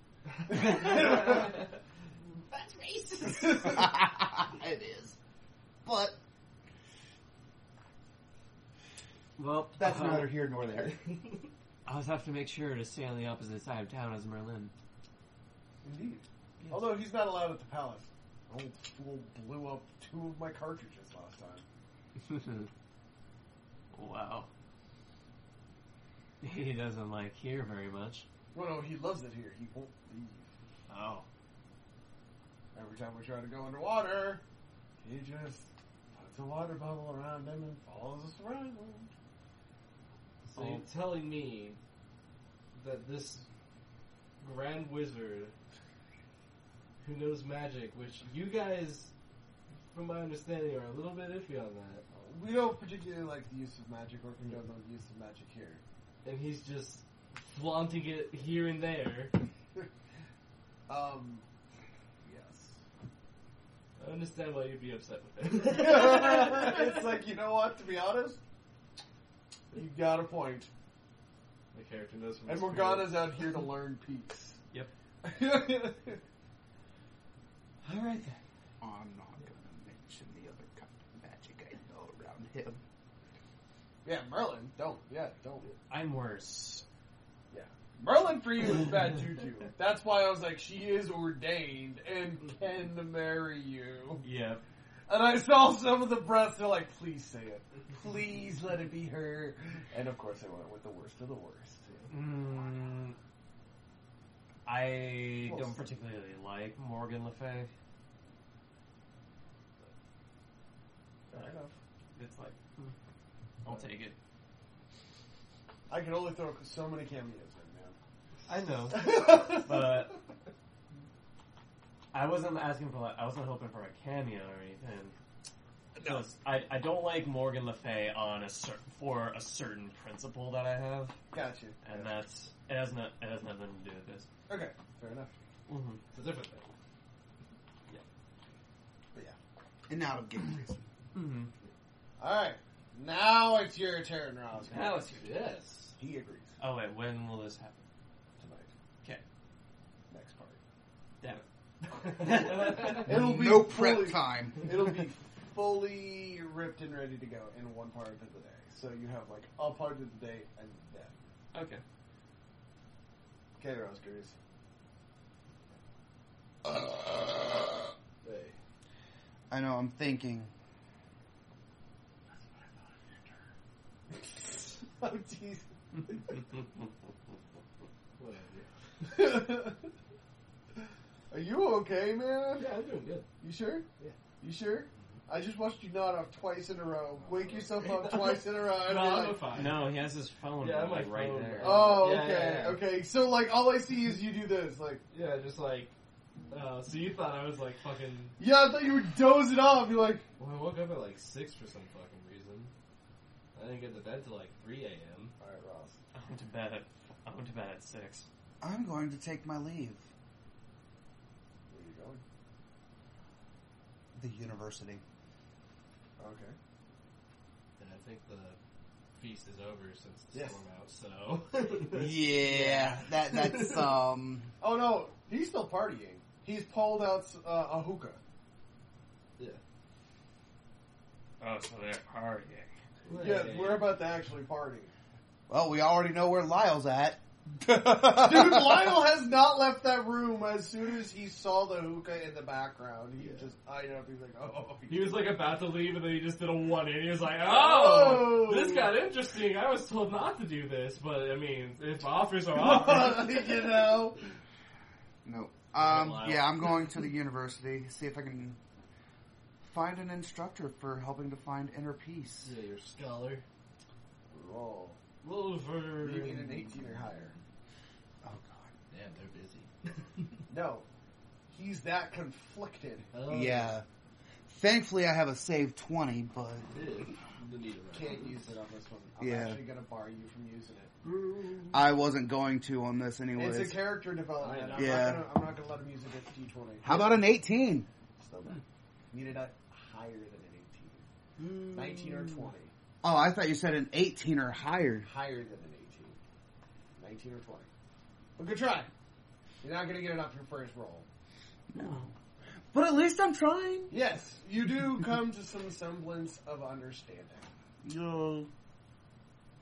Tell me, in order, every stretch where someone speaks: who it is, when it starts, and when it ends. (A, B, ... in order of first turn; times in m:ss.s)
0:00.5-0:01.6 A
0:00.5-0:01.6 B
0:02.5-0:03.7 B
0:03.5-0:05.2 C
0:05.8-0:06.2 C
0:09.4-0:10.4 B
0:09.8-0:11.0 C
0:11.1-0:11.5 D
0:11.9-0:14.7 B
0:15.8-0:21.6 A
0:16.6-0:17.0 B
0:22.2-0:22.7 B
0:23.9-0:24.5 B
0:26.4-0:28.3 B
0:28.5-0:30.5 A
0:30.9-0:31.3 B
0:32.7-0:34.4 A
0:35.0-0:39.1 A
0:40.5-0:41.8 D
0:40.6-0:40.8 B
0:42.7-0:43.5 D
0:44.4-0:45.6 D
0:47.0-0:49.1 D
0:49.9-0:52.0 D
0:52.1-0:55.8 A
0:56.2-0:59.4 D
1:00.9-1:01.4 A
1:02.2-1:02.8 A
1:04.0-1:06.8 D
1:05.7-1:08.4 A
1:09.7-1:10.7 A
1:11.7-1:13.3 D
1:12.5-1:14.6 A
1:15.2-1:16.2 A
1:17.8-1:18.4 B
1:18.8-1:22.8 C
1:24.0-1:25.7 A
1:25.9-1:26.8 B
1:27.5-1:34.2 A
1:34.2-1:34.6 B
1:35.1-1:42.2 A
1:42.1-1:43.2 B
1:44.7-1:47.7 B
1:45.4-1:45.8 A
1:51.3-1:51.8 A
1:52.1-1:52.9 B
1:53.6-1:54.2 B
1:55.9-1:58.0 A
1:58.5-2:00.2 B
1:58.9-2:00.0 A
2:02.1-2:05.1 B
2:06.0-2:06.3 A
2:06.0-2:11.2 B
2:11.3-2:12.2 A
2:11.8-2:14.3 B
2:14.5-2:15.3 A
2:15.7-2:16.0 B
2:16.1-2:16.7 D
2:19.9-2:20.8 C
2:21.1-2:21.5 B
2:22.2-2:25.2 A
2:24.7-2:25.3 B
2:25.2-2:25.9 D
2:26.0-2:26.6 A
2:26.6-2:27.8 B
2:28.4-2:28.7 A
2:30.1-2:30.6 A
2:32.0-2:33.1 B
2:32.2-2:33.0 D
2:32.8-2:41.2 A
2:33.0-2:35.0 C
2:41.5-2:41.8 B
2:43.6-2:44.4 A
2:48.2-2:48.6 D
2:49.5-2:50.5 C
2:54.1-2:56.4 A
2:58.2-2:58.7 D
2:59.0-2:59.9 A
3:01.3-3:02.7 A
3:02.6-3:03.3 D
3:03.4-3:03.9 A
3:04.4-3:09.6 A
3:07.2-3:10.0 D
3:09.5-3:12.0 B
3:10.6-3:12.8 D
3:11.6-3:15.0 A
3:15.1-3:15.9 D
3:16.5-3:18.4 D
3:18.4-3:20.3 A
3:20.4-3:22.7 D
3:23.5-3:25.3 D
3:25.4-3:26.0 A
3:26.1-3:28.3 B
3:28.6-3:30.0 C
3:31.7-3:32.2 A
3:34.1-3:35.0 C
3:36.2-3:36.6 A
3:37.8-3:38.6 D
3:39.1-3:43.9 D
3:40.3-3:40.6 A
3:41.9-3:44.5 C
3:44.6-3:48.2 A
3:51.4-3:52.7 B
3:53.1-3:54.0 D
3:53.1-3:54.9 A
3:55.5-3:58.9 C
3:58.0-4:05.2 A
4:03.2-4:03.5 D
4:04.9-4:13.6 D
4:07.4-4:08.9 A
4:12.5-4:14.2 A
4:15.2-4:18.6 C
4:15.8-4:16.4 D
4:19.6-4:22.5 C
4:22.4-4:23.4 D
4:24.3-4:25.0 A
4:25.2-4:26.9 D
4:26.0-4:27.4 A
4:28.2-4:28.7 C
4:28.9-4:30.4 D
4:30.5-4:30.9 A
4:31.5-4:33.1 A
4:33.1-4:33.8 D
4:33.3-4:33.8 C
4:34.5-4:36.7 C
4:36.7-4:38.5 D
4:37.9-4:40.9 A
4:39.2-4:39.6 C
4:41.1-4:41.7 D
4:41.7-4:43.8 C
4:43.4-4:47.2 A
4:44.4-4:45.2 D
4:44.8-4:45.3 C
4:46.8-4:47.9 C
4:48.2-4:51.1 A
4:51.4-4:52.4 D
4:51.7-4:52.7 A
4:53.0-4:55.1 C
4:55.0-4:56.2 A
4:57.0-4:57.7 A
4:58.4-4:58.9 A
4:59.6-5:01.1 A
5:01.7-5:02.1 C
5:02.7-5:03.9 C
5:03.9-5:07.5 A
5:07.8-5:08.5 C